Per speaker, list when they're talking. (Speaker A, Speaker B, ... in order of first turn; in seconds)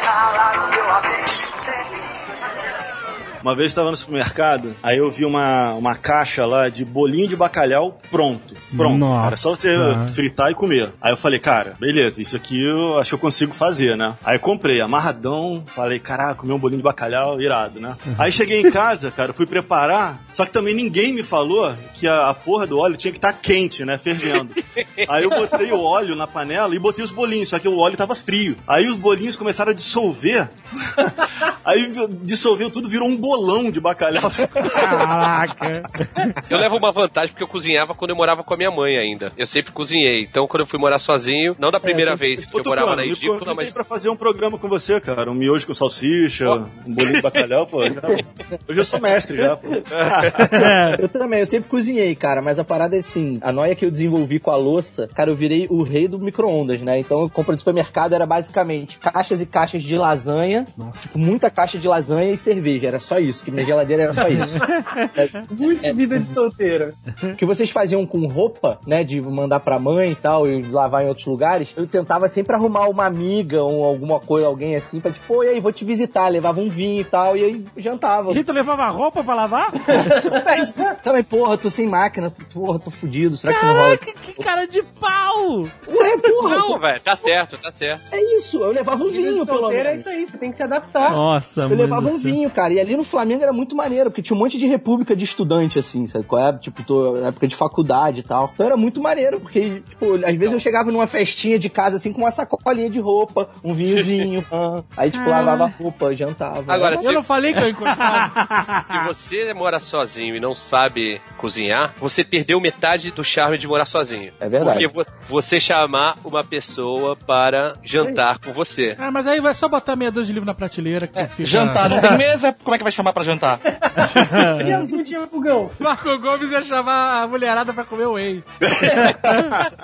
Speaker A: 3.4-35.1, 42.4-50.8
Speaker B: 8.7-10.2, 34.6-36.4, 50.4-51.0, 60.8-61.1, 64.1-65.1, 78.3-80.1, 83.5-85.8, 91.0-92.4, 105.2-105.6, 107.5-108.9, 124.1-124.8
Speaker C: 24.5-25.1, 36.4-43.7, 46.5-47.2, 49.9-50.3, 86.4-88.0, 106.7-107.2, 108.8-119.0
Speaker D: 50.9-66.0, 67.3-78.4, 80.2-84.4, 85.8-86.8, 88.1-90.0, 91.7-107.1, 114.4-114.9
Speaker E: 65.5-67.0, 79.9-80.9, 89.1-91.2, 123.7-125.7, 128.8-129.2
Speaker F: 107.0-108.3, 119.0-122.1, 125.8-128.4
Speaker G: 121.4-123.6